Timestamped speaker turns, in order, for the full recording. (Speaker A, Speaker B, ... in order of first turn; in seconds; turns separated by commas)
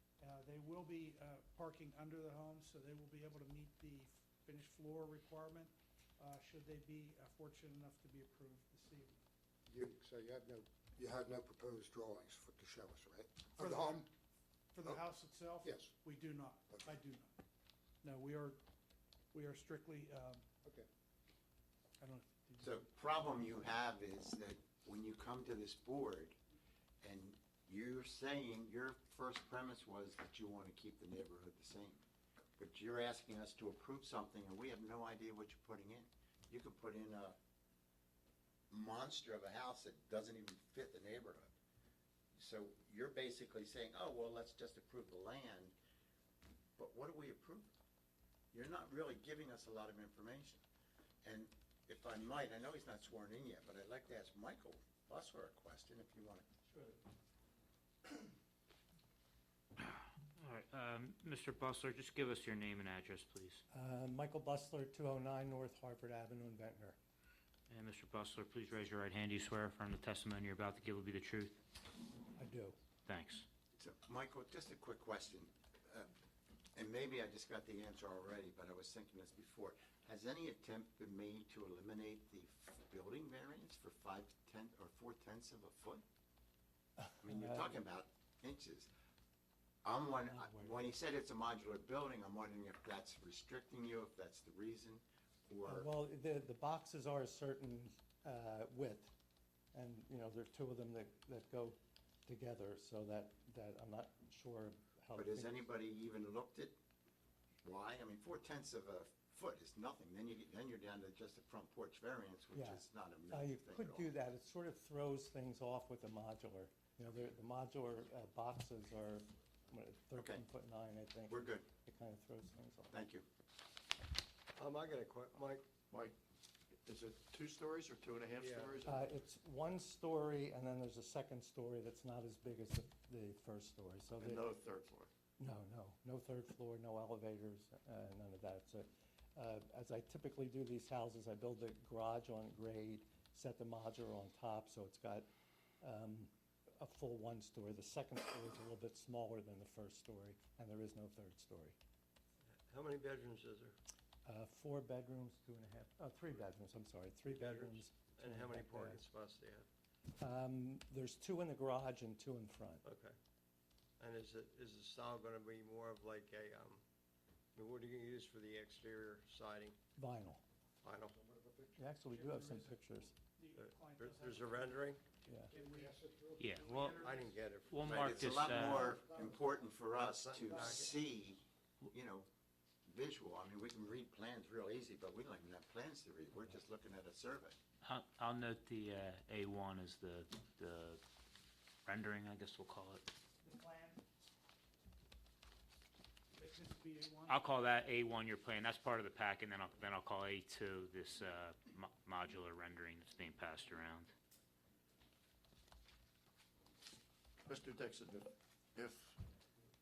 Speaker A: 0.2-9.2, Speaker B: 9.7-14.1, Speaker A: 13.6-14.1, Speaker A: 14.7-17.3, Speaker B: 15.6-16.0, Speaker A: 18.0-18.6, Speaker A: 19.3-20.4, Speaker A: 22.0-22.9, Speaker C: 22.6-26.4, Speaker C: 27.0-32.0, Speaker C: 32.6-37.4, Speaker C: 38.7-41.5, Speaker C: 42.4-45.8, Speaker C: 46.8-47.7, Speaker C: 48.5-50.6, Speaker C: 51.2-56.5, Speaker D: 59.8-63.6, Speaker E: 63.7-67.0, Speaker D: 67.7-71.6, Speaker E: 72.4-72.8, Speaker D: 73.1-73.5, Speaker C: 73.8-76.1, Speaker C: 76.8-86.0, Speaker E: 87.1-87.8, Speaker C: 87.2-88.9, Speaker C: 89.8-95.9, Speaker E: 90.3-90.9, Speaker E: 95.7-99.1, Speaker E: 99.7-105.6, Speaker C: 105.2-106.8, Speaker C: 107.6-114.1, Speaker E: 112.5-123.0, Speaker C: 120.2-120.4, Speaker C: 121.3-121.7, Speaker C: 122.9-123.3, Speaker F: 124.5-125.7, Speaker G: 126.8-129.1, Speaker F: 128.4-128.8, Speaker E: 128.8-134.5, Speaker G: 134.2-135.1, Speaker E: 135.4-145.3, Speaker E: 145.8-151.8, Speaker F: 152.7-153.8, Speaker E: 154.2-159.0, Speaker F: 157.3-159.7, Speaker E: 160.2-162.8, Speaker F: 162.8-163.2, Speaker F: 164.0-166.8, Speaker F: 167.6-169.8, Speaker E: 170.0-170.4, Speaker F: 170.8-171.2, Speaker B: 171.1-171.8, Speaker E: 171.8-173.1, Speaker A: 172.1-177.5, Speaker F: 173.6-175.1, Speaker E: 175.3-175.5, Speaker B: 175.5-177.5, Speaker D: 176.4-178.9, Speaker F: 177.0-178.5, Speaker C: 177.8-182.3, Speaker B: 178.5-179.6, Speaker F: 179.9-180.9, Speaker C: 182.9-187.6, Speaker D: 187.8-191.0, Speaker D: 191.8-193.1, Speaker A: 193.4-194.1, Speaker A: 196.3-197.5, Speaker D: 197.3-204.1, Speaker G: 207.4-209.2